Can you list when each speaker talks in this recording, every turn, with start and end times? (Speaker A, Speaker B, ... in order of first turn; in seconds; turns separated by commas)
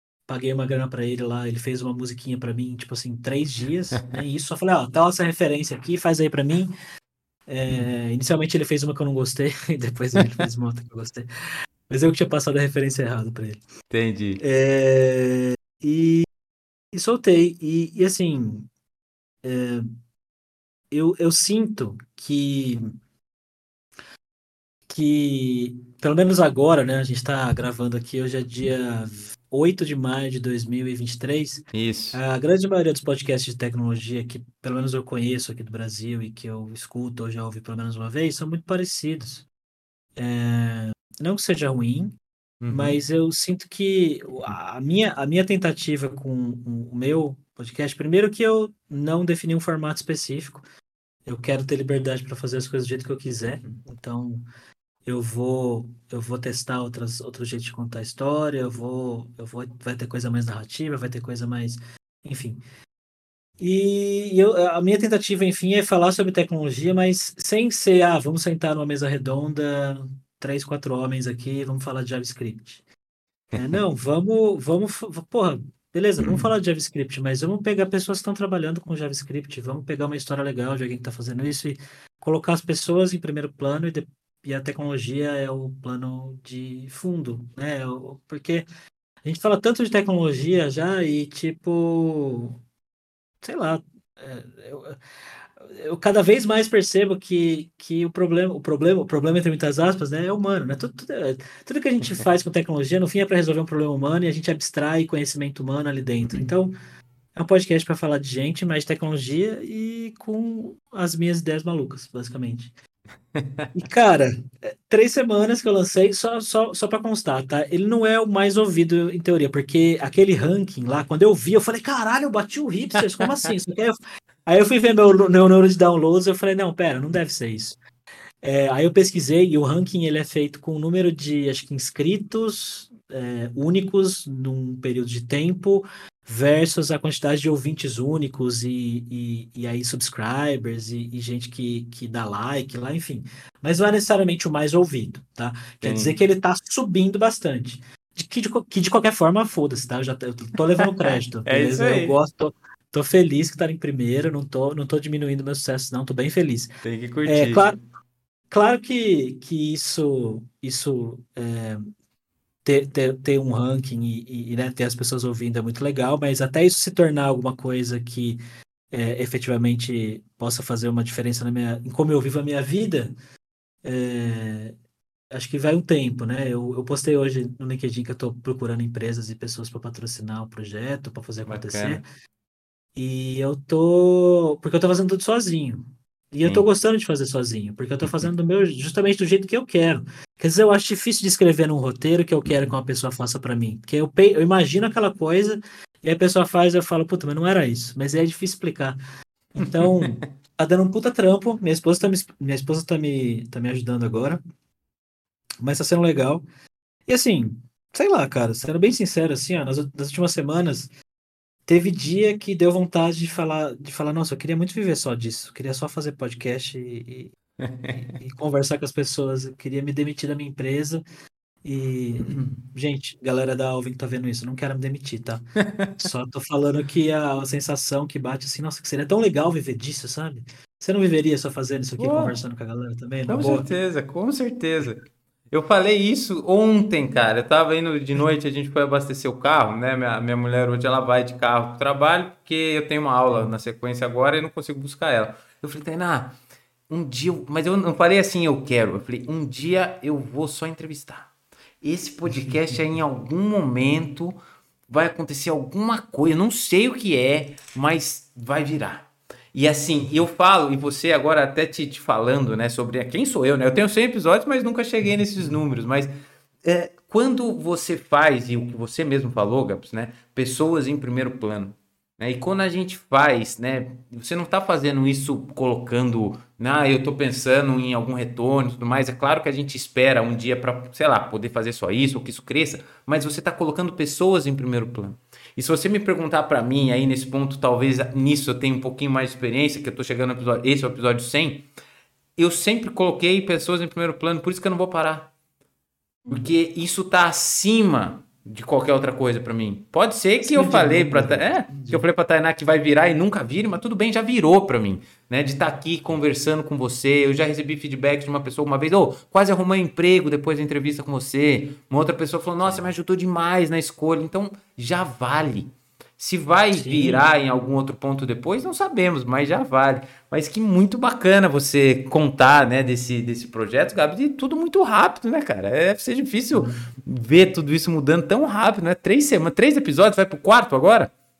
Speaker A: 0.3-6.7, Speaker A: 7.5-11.3, Speaker A: 11.9-13.6, Speaker B: 13.9-14.4, Speaker A: 14.4-16.3, Speaker A: 16.9-18.7, Speaker A: 19.4-19.9, Speaker A: 20.9-22.9, Speaker A: 24.9-39.5, Speaker B: 31.7-32.2, Speaker A: 40.2-42.2, Speaker B: 42.6-43.0, Speaker A: 42.7-50.6, Speaker A: 51.3-54.5, Speaker A: 55.1-62.6, Speaker A: 63.6-72.8, Speaker A: 73.5-88.7, Speaker A: 89.2-92.6, Speaker A: 93.4-95.0, Speaker A: 95.6-106.7, Speaker A: 107.3-112.7, Speaker B: 113.3-113.7, Speaker A: 113.8-127.8, Speaker A: 128.4-156.7, Speaker B: 145.8-146.2, Speaker B: 151.0-152.2, Speaker B: 156.8-157.7, Speaker A: 157.3-157.8, Speaker A: 158.5-161.9, Speaker A: 162.7-168.4, Speaker A: 168.9-173.1, Speaker A: 173.8-174.7, Speaker A: 175.3-182.0, Speaker B: 181.5-182.0, Speaker A: 182.9-199.0, Speaker A: 199.6-204.4, Speaker A: 205.6-206.4, Speaker A: 207.1-210.9, Speaker A: 211.7-217.3, Speaker B: 217.6-218.0, Speaker A: 217.9-221.0, Speaker A: 221.6-225.4, Speaker A: 226.0-233.7, Speaker B: 232.0-232.4, Speaker B: 233.3-246.4, Speaker B: 246.9-251.3, Speaker B: 251.8-254.4, Speaker A: 252.3-252.7, Speaker B: 254.9-266.1, Speaker B: 266.6-291.7, Speaker B: 292.4-295.3, Speaker A: 296.2-296.5, Speaker B: 296.3-331.1, Speaker A: 300.4-302.0, Speaker A: 312.6-312.9, Speaker A: 316.7-317.3, Speaker A: 326.5-326.8